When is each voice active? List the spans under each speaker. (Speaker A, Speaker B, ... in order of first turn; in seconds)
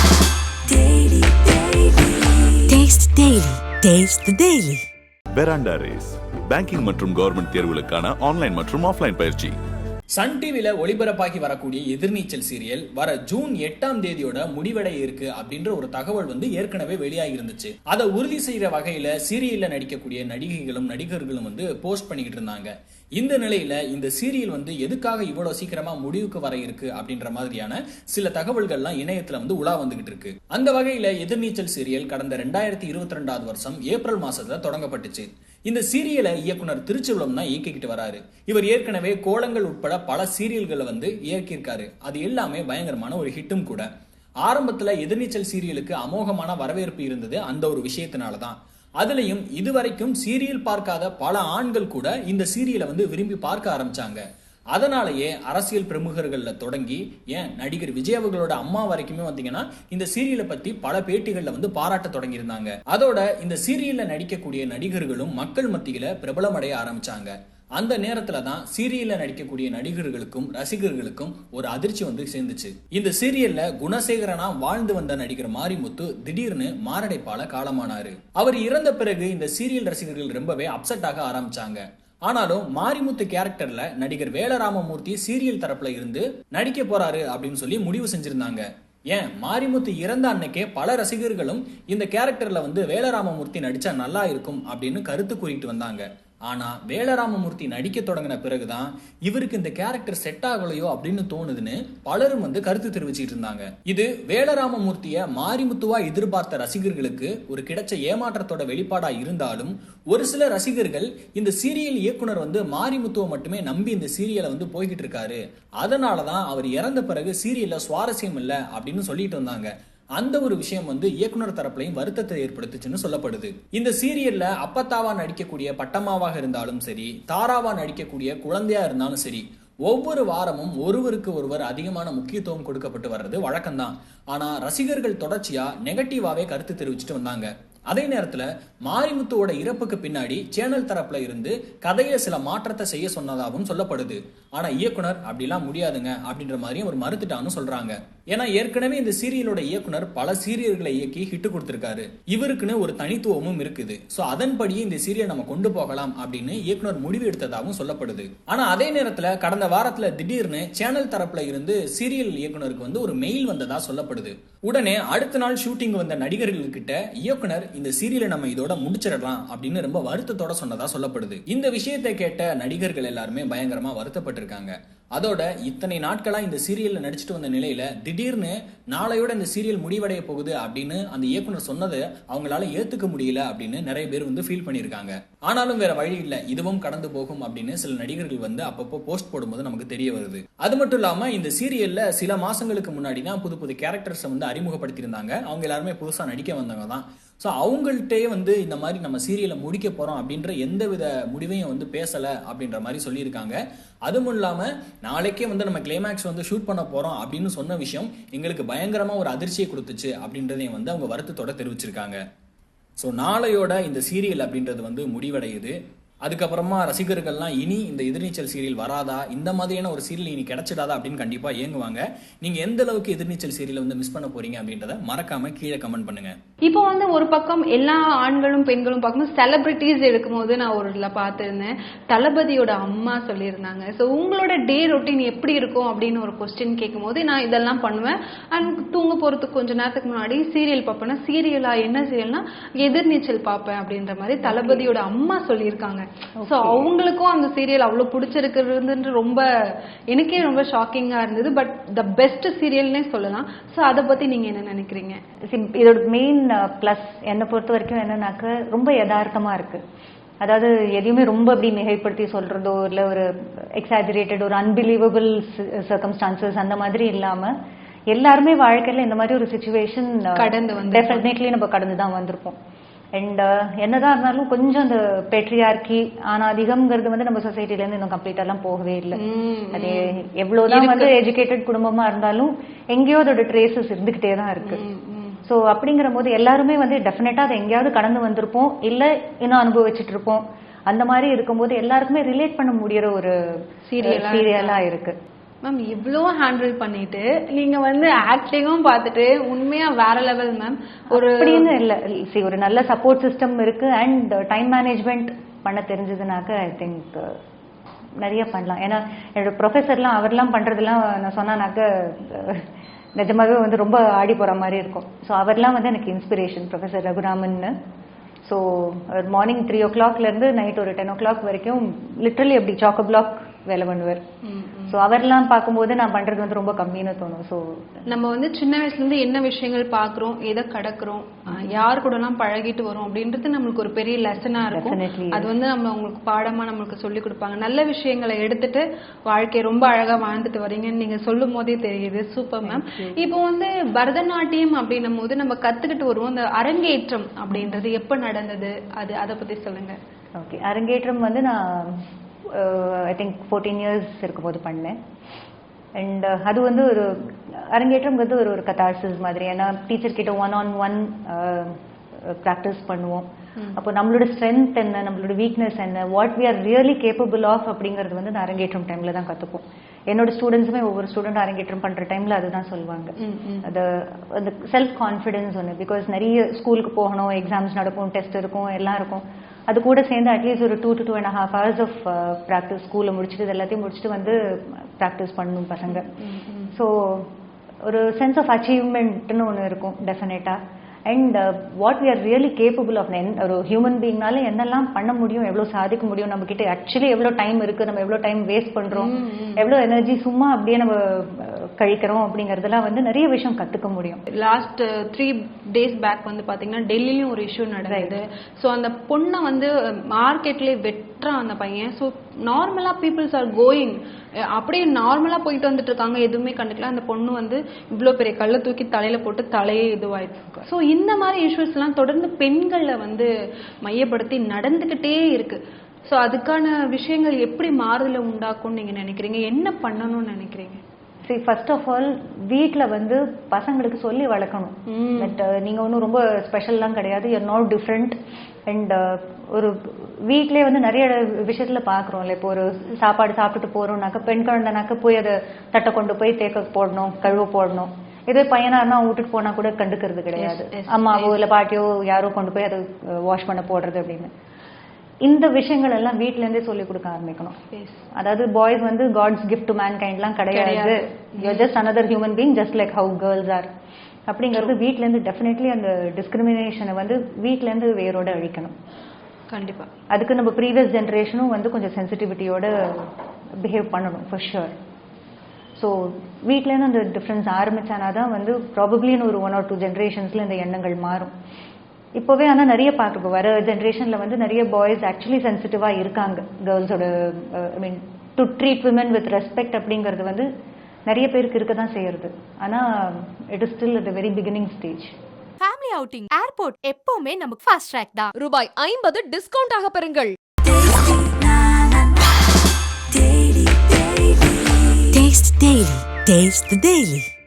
Speaker A: 0.7-2.7, 498.4-502.2, 503.1-504.9
Speaker B: 2.7-4.8, 505.1-507.3
Speaker C: 5.3-9.6
Speaker D: 10.2-43.9, 44.4-54.2, 54.7-212.2, 213.0-226.3
Speaker E: 226.7-249.4, 250.1-255.2, 270.3-271.3, 279.1-281.1, 284.6-285.4, 293.9-294.8, 295.6-301.7, 324.4-325.0, 328.1-350.0, 373.2-373.7, 385.9-386.7, 398.9-399.7, 404.3-414.0, 414.5-423.3, 423.8-430.8, 434.9-435.4, 450.4-451.4, 457.7-458.1, 460.5-461.7, 469.5-469.9
Speaker F: 244.4-244.8, 246.4-246.9, 255.5-259.8, 260.4-267.5, 268.1-272.6, 273.1-279.2, 279.7-284.8, 285.5-295.2, 301.1-307.4, 308.2-312.7, 313.2-317.7, 318.5-324.2, 324.9-327.8, 334.7-335.5, 342.6-343.2, 347.5-347.8, 350.4-354.9, 356.0-386.1, 386.7-387.3, 387.9-404.2, 407.8-408.2, 431.3-438.2, 438.7-454.3, 455.2-457.6, 458.1-463.7, 464.3-468.7, 470.1-474.8, 475.8-481.3, 482.2-490.5, 491.1-495.1
Speaker G: 495.6-498.3